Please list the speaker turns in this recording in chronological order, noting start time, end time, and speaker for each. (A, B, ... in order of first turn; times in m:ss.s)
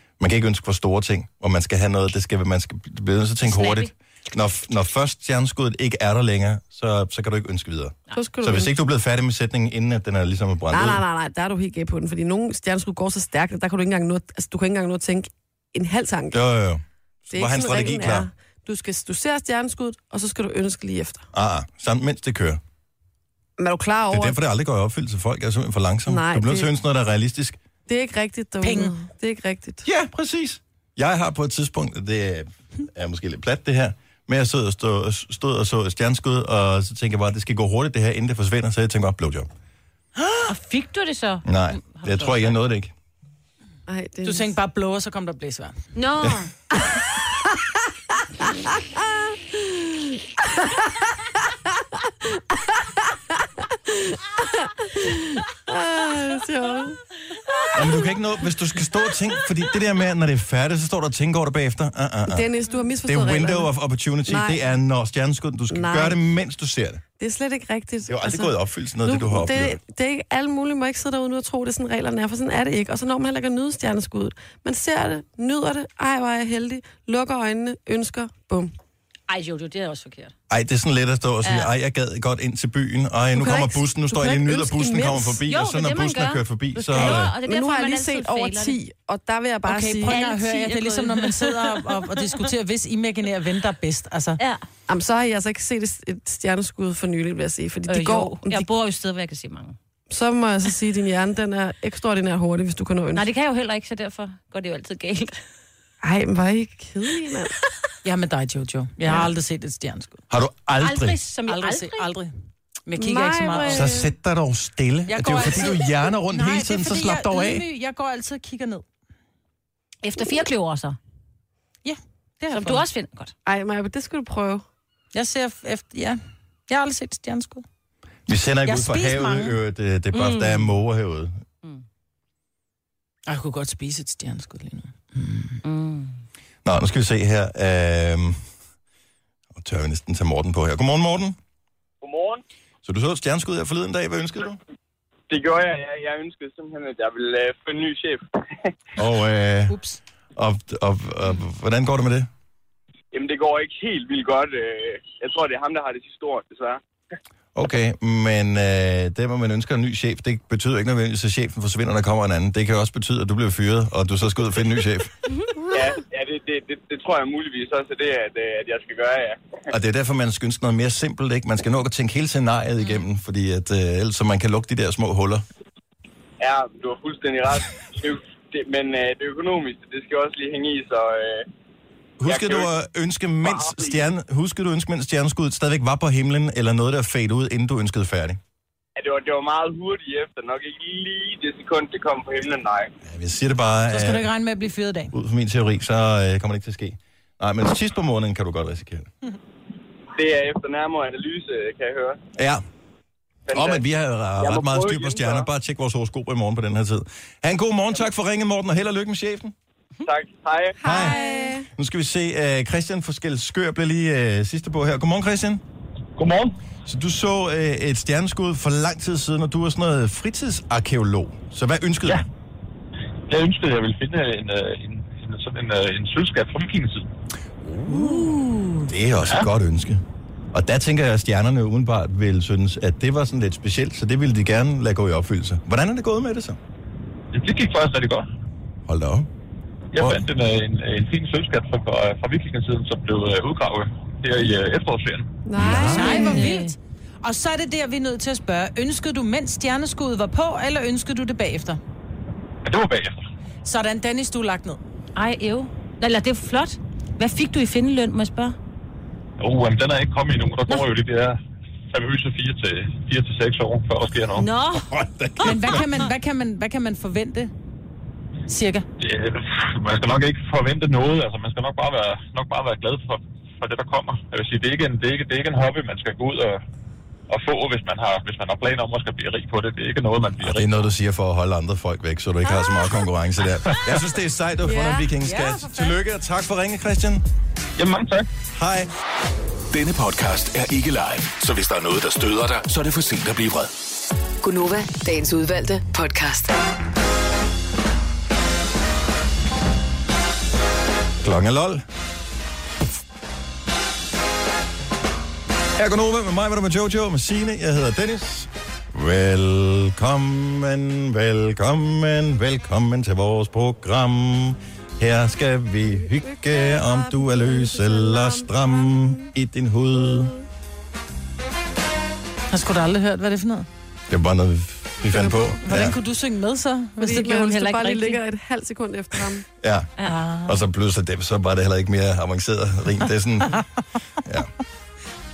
0:00.2-0:11.0 A
0:03.4-0:03.9 B
0:08.1-0:08.7 C
0:10.7-0:16.4 C
0:16.3-0:18.3 A
0:17.3-0:21.3 C
0:21.3-0:22.6 A
0:23.6-0:24.4 C
0:24.1-0:27.6 A
0:26.1-0:26.7 C
0:27.9-0:29.9 C
0:28.6-0:28.9 D
0:29.8-0:39.5 A
0:40.5-0:42.6 B
0:41.4-0:42.9 A
0:43.9-0:44.5 C
0:44.2-0:45.8 D
0:46.0-0:46.5 B
0:46.7-0:47.5 C
0:48.4-0:51.1 C
0:51.8-0:58.1 C
0:57.7-1:02.5 A
1:02.3-1:03.7 C
1:03.1-1:07.0 A
1:04.3-1:04.6 C
1:05.7-1:06.2 C
1:07.2-1:08.5 C
1:08.1-1:09.8 A
1:09.0-1:18.7 C
1:19.3-1:20.3 B
1:20.5-1:27.3 A
1:21.4-1:21.7 B
1:23.4-1:25.4 C
1:25.5-1:28.8 B
1:27.0-1:30.1 C
1:29.6-1:34.4 D
1:30.1-1:32.2 B
1:34.4-1:34.7 B
1:34.9-1:38.7 C
1:37.9-1:39.8 B
1:40.1-1:43.3 C
1:43.1-1:45.4 B
1:46.0-1:47.6 C
1:48.0-1:50.2 D
1:50.3-1:51.2 A
1:50.8-1:52.1 B
1:51.5-1:52.3 D
1:52.9-1:53.9 D
1:53.0-1:54.1 C
1:53.7-1:57.6 A
1:55.1-1:58.8 D
2:00.0-2:01.0 B
2:01.8-2:02.8 D
2:02.5-2:03.3 B
2:03.5-2:04.6 C
2:05.1-2:07.7 D
2:08.3-2:11.4 A
2:08.7-2:09.6 D
2:10.1-2:10.7 B
2:13.3-2:15.6 D
2:15.6-2:16.2 B
2:16.6-2:18.4 A
2:19.6-2:21.4 A
2:22.0-2:22.4 E
2:22.8-2:24.6 A
2:25.3-2:28.2 E
2:29.0-2:29.8 A
2:29.7-2:30.0 D
2:30.4-2:32.3 A
2:33.1-2:36.8 E
2:37.6-2:45.1 A
2:45.7-2:49.6 E
2:49.7-2:55.4 A
2:56.4-3:01.5 E
3:02.2-3:08.4 A
3:02.2-3:02.7 E
3:03.4-3:04.1 E
3:09.0-3:12.9 E
3:13.0-3:14.3 A
3:13.9-3:15.1 D
3:15.1-3:19.1 A
3:20.2-3:22.2 E
3:22.4-3:22.6 A
3:23.5-3:23.8 E
3:23.5-3:29.5 A
3:24.4-3:25.5 E
3:30.0-3:30.8 E
3:30.8-3:31.7 C
3:30.8-3:31.2 A
3:31.8-3:35.6 A
3:36.2-3:36.6 F
3:36.9-3:42.2 A
3:43.3-3:47.0 F
3:47.6-3:50.0 A
3:47.9-3:48.9 B
3:50.5-3:56.6 A
3:57.3-3:58.2 F
3:58.9-3:59.3 A
3:59.9-4:05.3 F
4:00.0-4:00.2 A
4:05.4-4:06.4 C
4:05.6-4:06.3 A
4:05.7-4:11.8 D
4:05.9-4:06.8 B
4:12.6-4:13.3 F
4:13.6-4:14.8 D
4:15.2-4:18.6 B
4:19.4-4:21.4 F
4:21.9-4:24.5 F
4:24.4-4:25.5 B
4:24.7-4:25.8 A
4:25.4-4:27.5 D
4:28.5-4:28.9 D
4:29.0-4:36.6 F
4:37.3-4:40.7 F
4:40.4-4:47.2 A
4:45.2-4:46.0 D
4:47.8-4:48.3 F
4:48.5-4:48.9 A
4:49.7-4:53.7 G
4:54.4-4:56.5 H
5:01.2-5:01.8 A
5:05.8-5:20.3 A
5:16.2-5:19.3 C
5:22.5-5:23.7 D
5:24.1-5:26.0 A
5:25.1-5:25.6 C
5:25.6-5:28.2 D
5:27.0-5:29.4 C
5:29.6-5:29.9 A
5:30.0-5:30.3 B
5:30.0-5:30.6 D
5:30.5-5:33.6 A
5:34.2-5:34.5 A